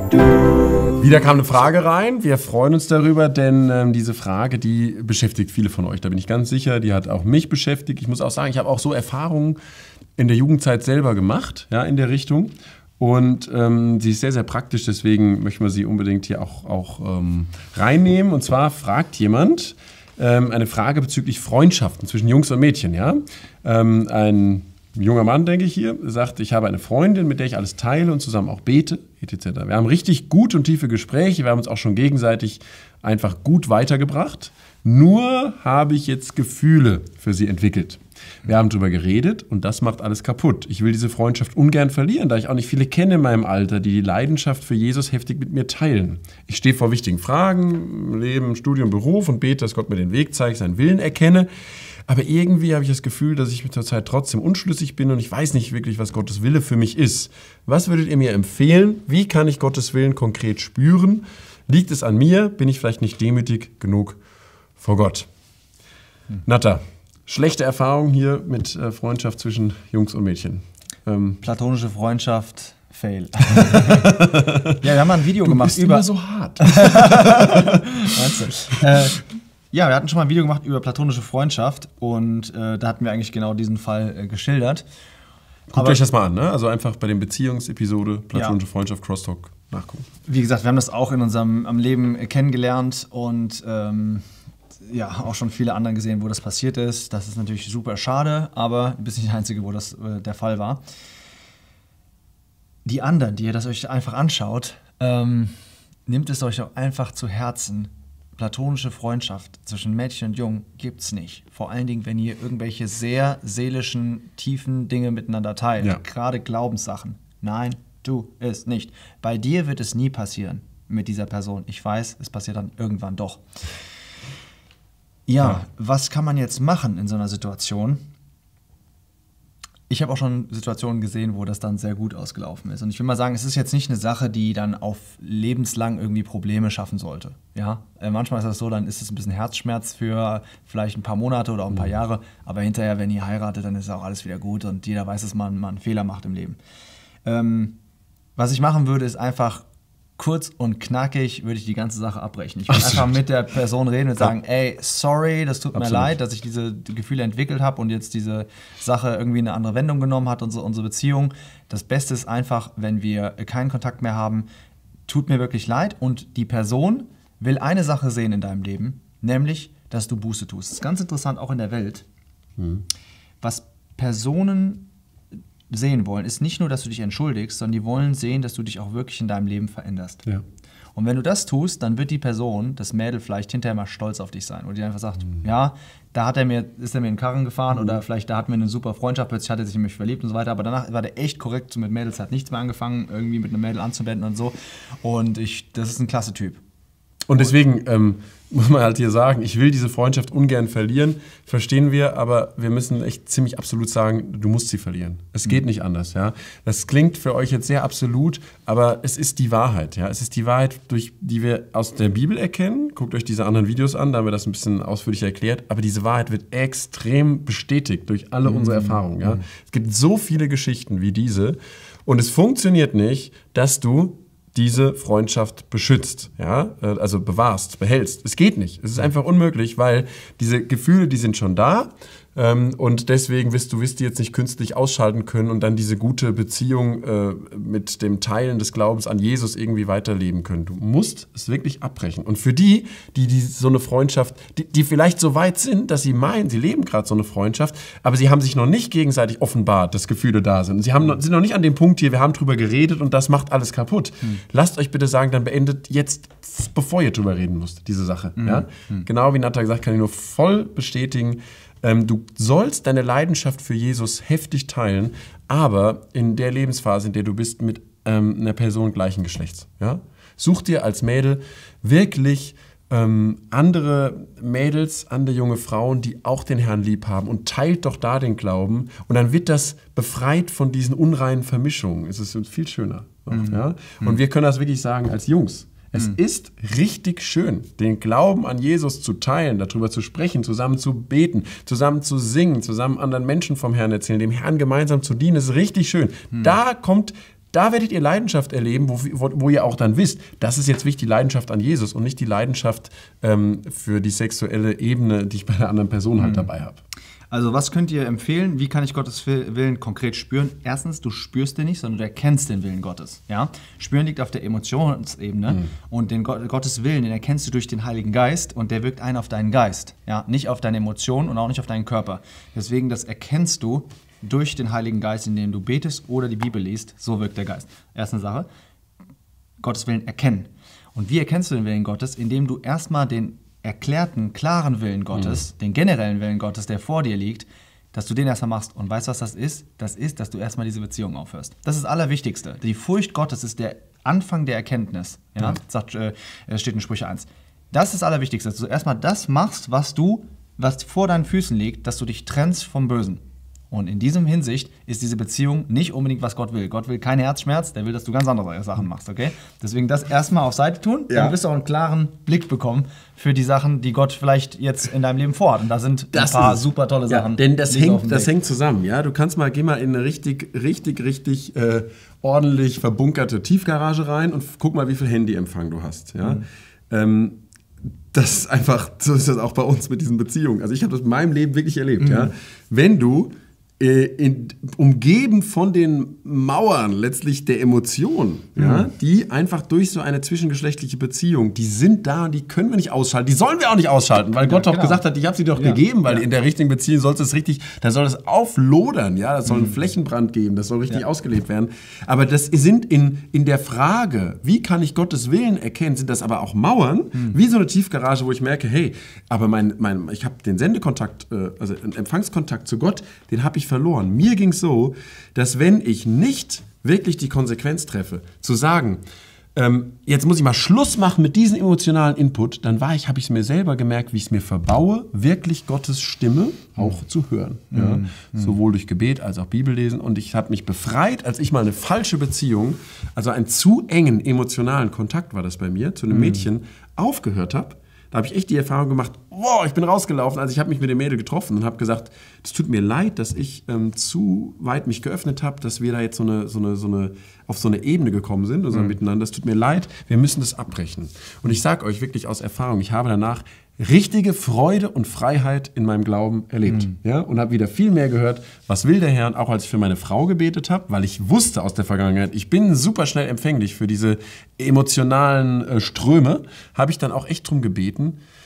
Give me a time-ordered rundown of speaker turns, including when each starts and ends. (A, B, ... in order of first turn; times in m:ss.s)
0:01.0-0:09.6 A
0:10.2-0:51.5 A
0:52.1-1:04.2 A
1:04.8-1:05.3 A
1:06.4-1:11.4 A
1:11.4-1:14.1 B
1:13.9-1:14.8 A
1:14.8-1:16.1 B
1:15.4-1:18.0 A
1:16.6-1:24.8 B
1:25.7-1:30.1 A
1:30.3-1:34.2 B
1:34.8-1:40.8 B
1:42.9-1:45.5 B
1:46.1-2:03.4 B
2:05.3-2:08.0 B
2:09.9-2:26.6 B
2:27.2-2:27.8 B
2:28.4-2:29.6 B
2:30.2-2:44.5 B
2:32.7-2:33.0 A
2:35.8-2:36.1 A
2:45.1-2:52.1 B
2:52.6-2:52.8 A
2:53.4-2:54.9 B
2:55.7-3:00.2 B
3:01.0-3:16.6 B
3:17.3-5:06.8 A
3:38.4-3:39.4 B
4:18.4-4:19.1 B
4:43.3-4:44.2 B
5:06.2-5:06.5 B
5:07.3-5:28.5 B
5:29.6-5:53.2 B
5:53.7-6:08.3 B
6:01.1-6:01.4 A
6:06.1-6:17.4 A
6:16.2-6:16.5 B
6:18.1-6:59.0 A
6:22.0-6:22.3 B
6:28.6-6:28.9 B
6:34.4-6:35.0 B
6:35.6-6:36.2 B
6:39.4-6:39.8 B
6:59.6-7:48.2 A
7:07.7-7:08.6 B
7:16.1-7:16.4 B